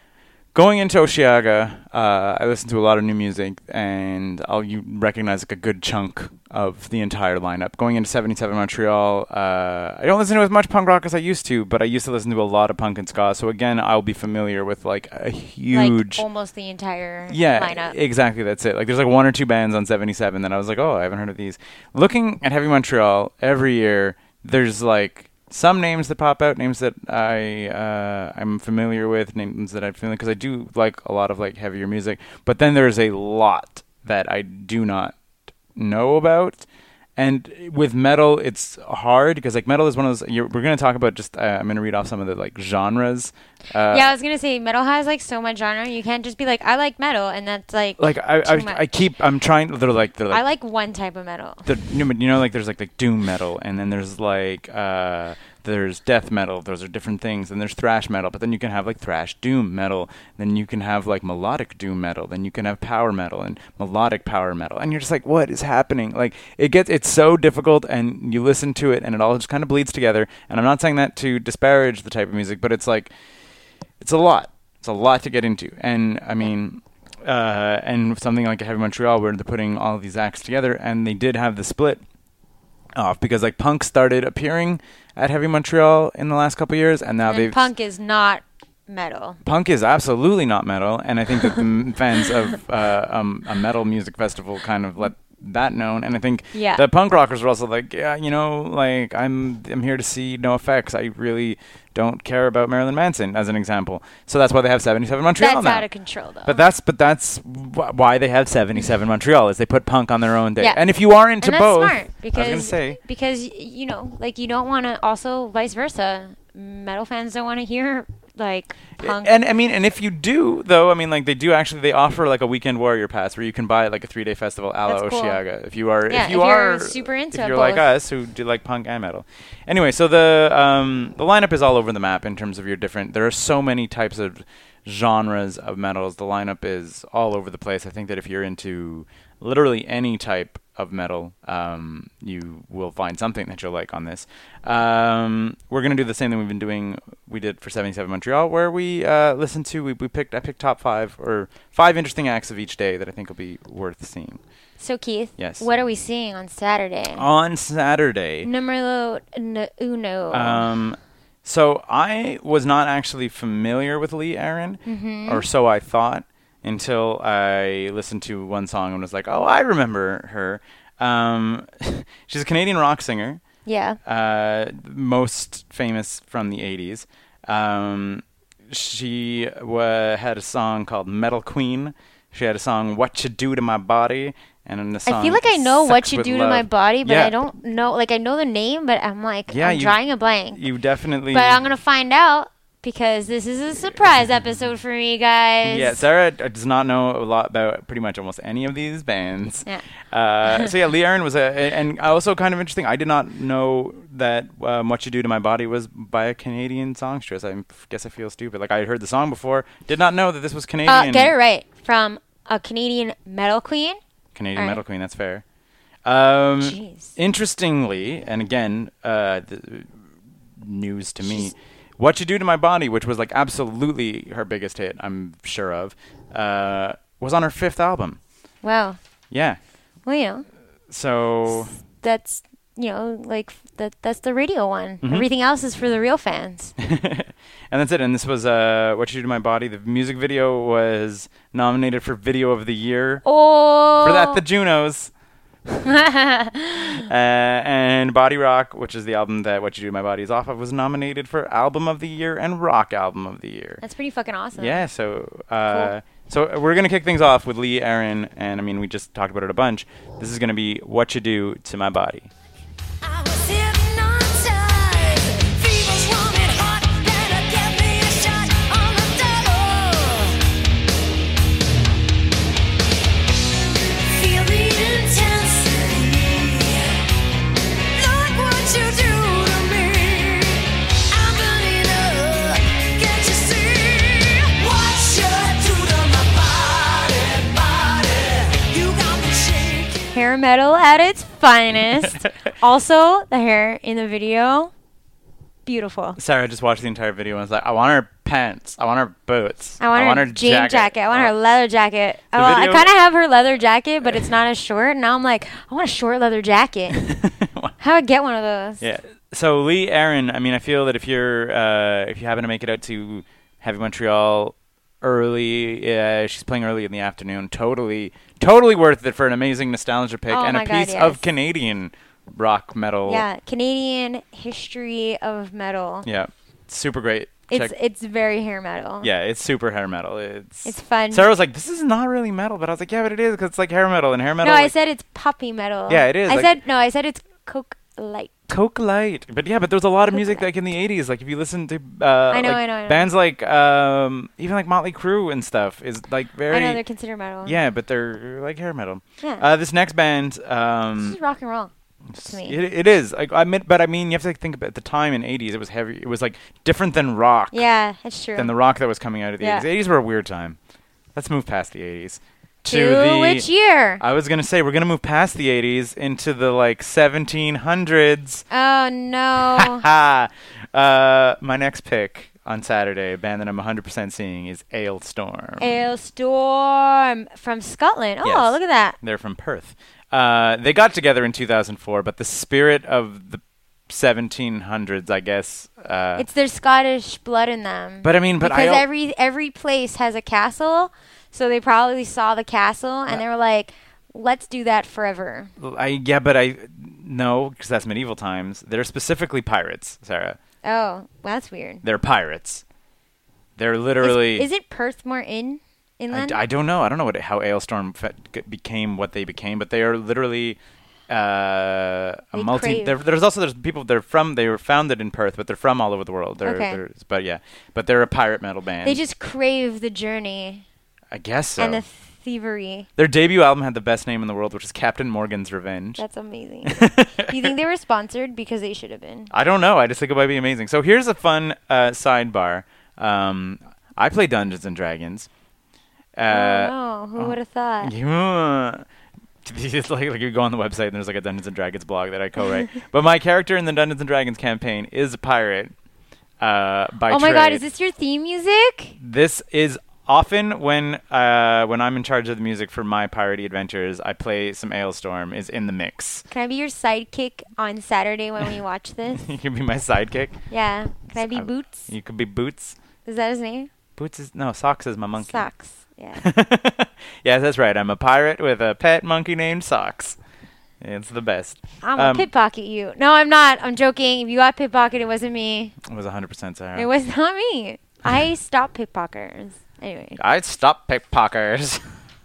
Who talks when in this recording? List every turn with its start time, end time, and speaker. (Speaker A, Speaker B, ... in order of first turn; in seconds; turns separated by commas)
Speaker A: 0.5-16.2, Speaker B: 15.7-18.0, Speaker A: 17.3-35.1, Speaker A: 35.7-36.6, Speaker A: 37.2-44.1, Speaker B: 43.9-48.8, Speaker A: 48.0-50.4, Speaker B: 50.3-51.7, Speaker A: 51.6-73.1, Speaker A: 74.0-82.0, Speaker A: 82.9-87.7, Speaker B: 87.2-89.4, Speaker A: 89.4-105.9, Speaker B: 96.5-96.8, Speaker B: 105.4-106.7, Speaker A: 106.4-113.0, Speaker B: 110.6-110.8, Speaker B: 111.4-119.4, Speaker A: 119.0-154.4, Speaker B: 124.9-125.4, Speaker B: 126.1-127.9, Speaker B: 154.8-157.3, Speaker A: 155.4-155.7, Speaker A: 157.1-158.5, Speaker B: 158.4-160.7, Speaker A: 160.3-173.4, Speaker B: 164.8-165.4, Speaker B: 173.7-174.0, Speaker A: 174.0-187.4, Speaker B: 185.1-190.7, Speaker A: 189.5-190.0, Speaker A: 190.5-191.6, Speaker B: 191.3-196.0, Speaker A: 195.6-211.3, Speaker B: 200.5-200.7, Speaker B: 210.8-214.0, Speaker A: 214.3-215.4, Speaker B: 214.6-214.8, Speaker A: 216.0-219.9, Speaker B: 216.6-217.1, Speaker A: 220.6-228.2, Speaker B: 221.2-221.5, Speaker B: 228.6-229.0, Speaker A: 229.3-229.6, Speaker B: 230.1-230.4, Speaker A: 230.9-231.8, Speaker B: 232.0-236.7, Speaker A: 235.0-235.3, Speaker A: 236.8-243.2, Speaker B: 243.2-244.4, Speaker A: 244.0-245.1, Speaker B: 245.8-247.0, Speaker A: 246.8-253.8, Speaker B: 253.8-254.8, Speaker A: 254.5-262.3, Speaker B: 263.1-265.7, Speaker C: 265.9-266.7, Speaker B: 267.1-270.4, Speaker C: 274.2-274.8, Speaker B: 278.0-284.7, Speaker C: 284.7-289.0, Speaker B: 288.8-294.7, Speaker B: 295.6-296.2, Speaker A: 296.2-301.3, Speaker B: 299.8-307.1, Speaker A: 302.3-302.9, Speaker A: 306.9-307.7, Speaker B: 307.8-308.8, Speaker A: 308.8-323.2, Speaker B: 320.3-321.2, Speaker B: 323.1-326.1, Speaker A: 326.0-327.7, Speaker B: 327.5-329.1, Speaker A: 329.0-334.7, Speaker B: 330.6-331.3, Speaker B: 334.4-338.3, Speaker A: 335.9-336.6, Speaker A: 338.5-346.8, Speaker B: 340.1-340.4, Speaker B: 342.3-343.1, Speaker B: 346.5-347.6, Speaker A: 347.4-351.2, Speaker B: 351.0-351.7, Speaker A: 352.1-357.7, Speaker B: 352.2-352.6, Speaker B: 357.5-358.5, Speaker A: 358.4-360.6, Speaker B: 359.4-359.6, Speaker A: 361.1-363.5, Speaker B: 362.6-364.0, Speaker A: 364.0-368.4, Speaker B: 368.5-369.9, Speaker A: 369.4-375.6, Speaker B: 375.6-379.0, Speaker A: 378.2-386.2, Speaker B: 386.2-395.5, Speaker A: 388.0-388.9, Speaker A: 395.6-400.4, Speaker B: 400.6-401.8, Speaker A: 401.8-402.6, Speaker A: 403.6-404.5, Speaker B: 404.0-406.4, Speaker A: 406.1-419.0, Speaker B: 412.3-413.0, Speaker B: 416.4-416.8, Speaker B: 418.8-420.6, Speaker A: 421.1-421.8, Speaker B: 421.6-422.9, Speaker A: 423.0-426.0, Speaker B: 426.0-429.3, Speaker A: 426.6-427.5, Speaker A: 429.3-435.3, Speaker A: 436.1-438.9, Speaker B: 436.3-437.9, Speaker A: 439.4-445.7, Speaker A: 446.4-447.6, Speaker B: 447.1-448.9, Speaker A: 449.0-456.3, Speaker B: 456.3-459.3, Speaker A: 459.2-460.4, Speaker B: 460.5-461.9, Speaker A: 461.1-462.8, Speaker B: 463.0-463.7, Speaker A: 463.9-465.5, Speaker B: 465.2-466.2, Speaker A: 466.2-470.2, Speaker A: 470.8-472.2, Speaker B: 471.8-475.8, Speaker A: 475.8-476.9, Speaker B: 476.8-480.2, Speaker A: 480.2-481.9